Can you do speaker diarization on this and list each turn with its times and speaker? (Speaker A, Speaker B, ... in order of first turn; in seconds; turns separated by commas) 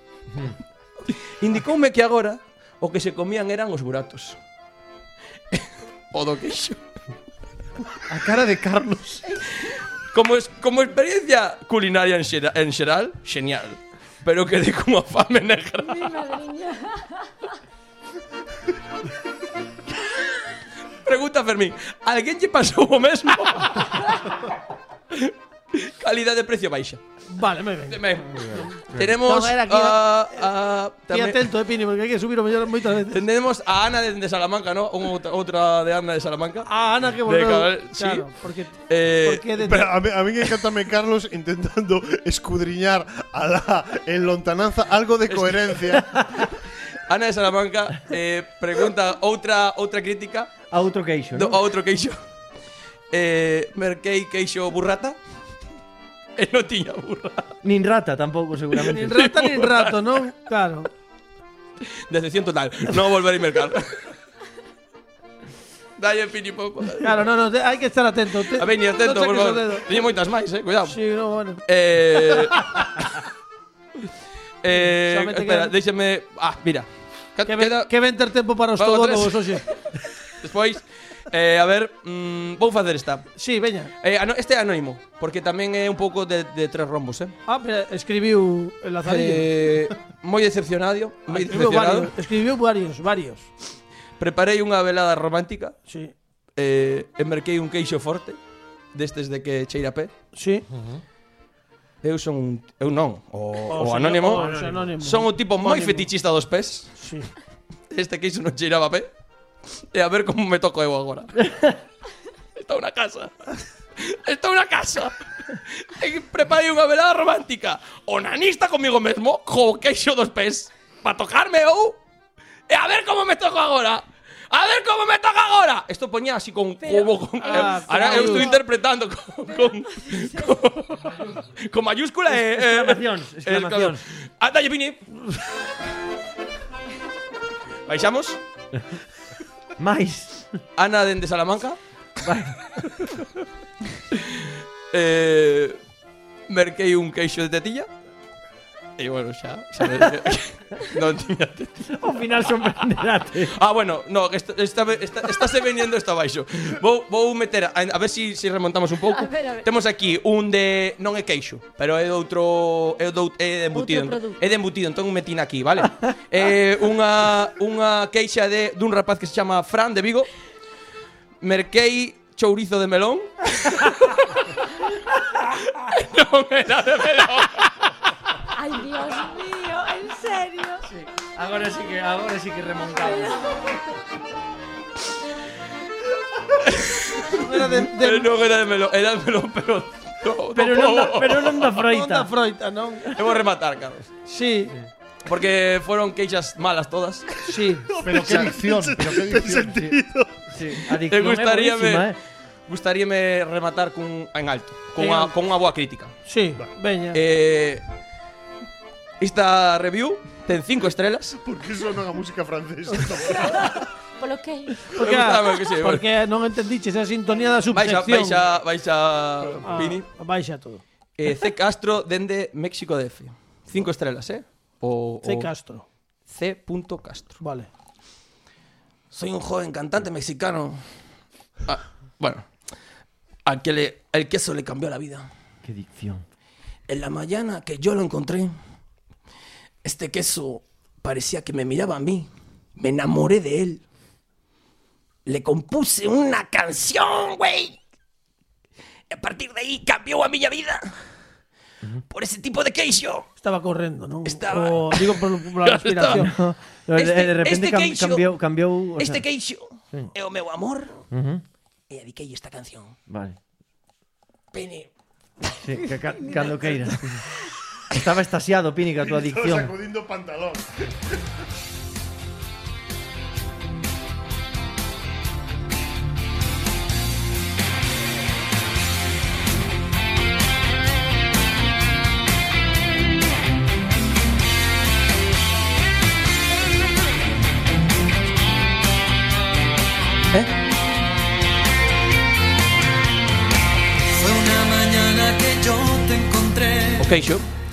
Speaker A: 1.2-4.4, Speaker A: 5.5-6.8, Speaker B: 8.1-9.2, Speaker A: 10.1-16.3, Speaker C: 15.8-17.3, Speaker A: 21.0-24.2, Speaker A: 25.1-27.0, Speaker D: 27.3-28.0, Speaker A: 27.9-31.5, Speaker E: 28.4-29.2, Speaker D: 29.2-30.4, Speaker D: 31.1-33.2, Speaker A: 33.1-36.7, Speaker D: 36.7-39.9, Speaker A: 37.2-38.3, Speaker A: 38.9-39.6, Speaker F: 39.6-46.2, Speaker A: 45.3-45.8, Speaker A: 47.1-50.5, Speaker E: 50.7-51.6, Speaker A: 51.3-52.2, Speaker A: 53.1-55.2, Speaker A: 56.4-57.5, Speaker E: 57.6-59.2, Speaker A: 58.9-60.2, Speaker D: 58.9-60.9, Speaker A: 62.1-64.0, Speaker A: 66.0-67.1, Speaker D: 67.0-69.9, Speaker A: 68.5-71.0, Speaker D: 70.9-71.6, Speaker A: 71.6-73.2, Speaker A: 74.6-77.9, Speaker D: 74.7-75.7, Speaker D: 77.5-79.6, Speaker A: 78.8-79.7, Speaker A: 80.4-83.3, Speaker D: 83.4-83.9, Speaker A: 84.0-87.3, Speaker D: 87.5-89.5, Speaker A: 89.0-92.1, Speaker D: 91.3-93.5, Speaker A: 94.2-95.8, Speaker D: 95.9-96.1, Speaker A: 96.6-98.4, Speaker A: 98.9-100.1, Speaker D: 100.3-100.7, Speaker A: 102.0-106.9, Speaker D: 103.7-106.1, Speaker E: 104.3-104.9, Speaker D: 107.0-107.3, Speaker A: 107.9-109.1, Speaker A: 109.9-111.5, Speaker E: 111.4-111.7, Speaker A: 112.6-113.3, Speaker A: 114.0-122.0, Speaker A: 122.7-135.4, Speaker C: 126.8-128.6, Speaker D: 127.4-128.6, Speaker C: 130.1-130.5, Speaker E: 132.3-134.0, Speaker A: 137.9-138.4, Speaker E: 139.8-140.6, Speaker A: 140.8-141.8, Speaker E: 142.2-142.6, Speaker A: 144.1-145.8, Speaker A: 146.5-147.9, Speaker A: 149.0-152.8, Speaker E: 151.9-153.6, Speaker A: 153.4-170.3, Speaker C: 159.1-159.7, Speaker C: 163.7-164.4, Speaker A: 171.4-174.4, Speaker A: 175.6-177.7, Speaker C: 178.5-180.8, Speaker E: 180.9-183.4, Speaker C: 182.9-183.7, Speaker A: 186.6-191.7, Speaker D: 187.3-188.3, Speaker E: 190.5-192.3, Speaker D: 191.7-193.2, Speaker A: 193.1-194.1, Speaker D: 194.3-194.7, Speaker A: 195.2-197.3, Speaker D: 197.4-197.9, Speaker F: 197.9-200.4, Speaker B: 198.0-199.9, Speaker E: 200.5-202.2, Speaker A: 201.1-202.1, Speaker A: 202.7-206.1, Speaker D: 205.0-205.3, Speaker D: 206.3-207.2, Speaker A: 207.1-207.8, Speaker A: 209.2-211.4, Speaker F: 211.4-213.7, Speaker C: 214.2-214.8, Speaker A: 214.9-216.1, Speaker D: 214.9-218.4, Speaker A: 217.7-220.1, Speaker D: 219.6-220.8, Speaker A: 221.2-225.5, Speaker D: 225.2-225.8, Speaker A: 226.3-227.4, Speaker D: 227.4-227.7, Speaker A: 229.1-230.8, Speaker A: 231.7-232.5, Speaker A: 233.4-235.3, Speaker E: 235.6-236.2, Speaker A: 236.9-238.5, Speaker A: 239.8-243.8, Speaker A: 245.3-247.8, Speaker A: 249.1-250.9, Speaker A: 252.1-253.3, Speaker D: 253.4-256.3, Speaker A: 254.2-256.3, Speaker E: 256.1-259.2, Speaker A: 256.9-258.3, Speaker A: 258.9-260.9, Speaker E: 261.1-261.4, Speaker A: 261.9-262.9, Speaker E: 263.1-263.4, Speaker A: 264.5-264.9, Speaker E: 265.6-267.2, Speaker E: 267.9-269.7, Speaker F: 269.0-270.9, Speaker G: 294.4-296.9, Speaker A: 297.0-297.4